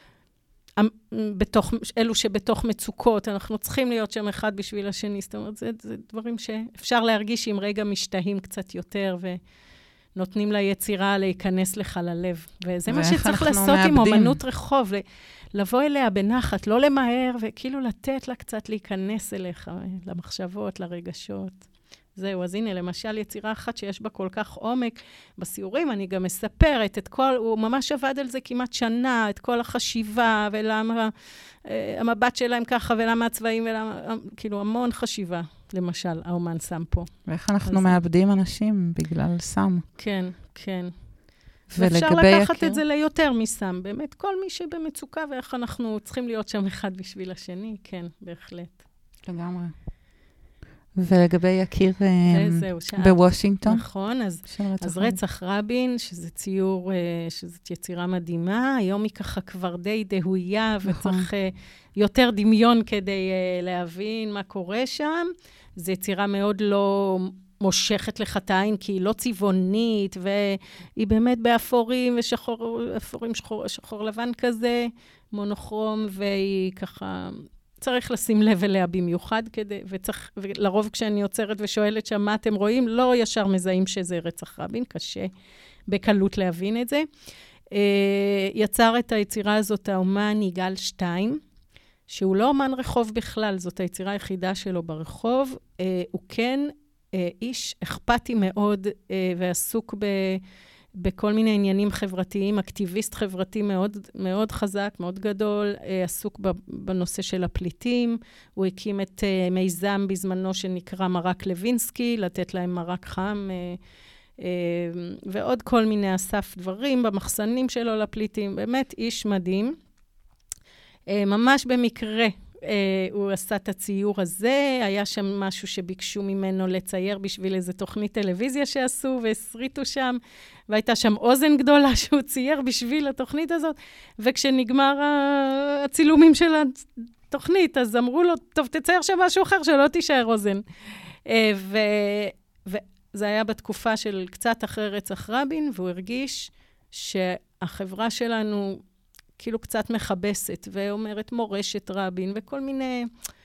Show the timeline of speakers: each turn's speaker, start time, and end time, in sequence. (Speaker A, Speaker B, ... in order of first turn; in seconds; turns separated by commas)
Speaker A: 0.8-9.4, Speaker A: 10.2-15.0, Speaker B: 12.9-14.3, Speaker A: 15.5-21.6, Speaker A: 22.1-31.1, Speaker A: 31.6-37.1, Speaker B: 37.3-39.8, Speaker A: 37.6-38.0, Speaker A: 40.0-40.9, Speaker B: 41.7-42.8, Speaker A: 41.8-48.8, Speaker B: 49.2-49.7, Speaker B: 51.0-53.8, Speaker A: 52.3-85.3, Speaker B: 54.5-55.2, Speaker B: 60.9-61.2, Speaker A: 85.9-87.0, Speaker A: 87.7-91.4, Speaker A: 92.1-100.4, Speaker A: 101.0-113.8, Speaker A: 114.4-119.8, Speaker A: 121.1-140.6, Speaker A: 141.2-148.8, Speaker A: 149.4-153.1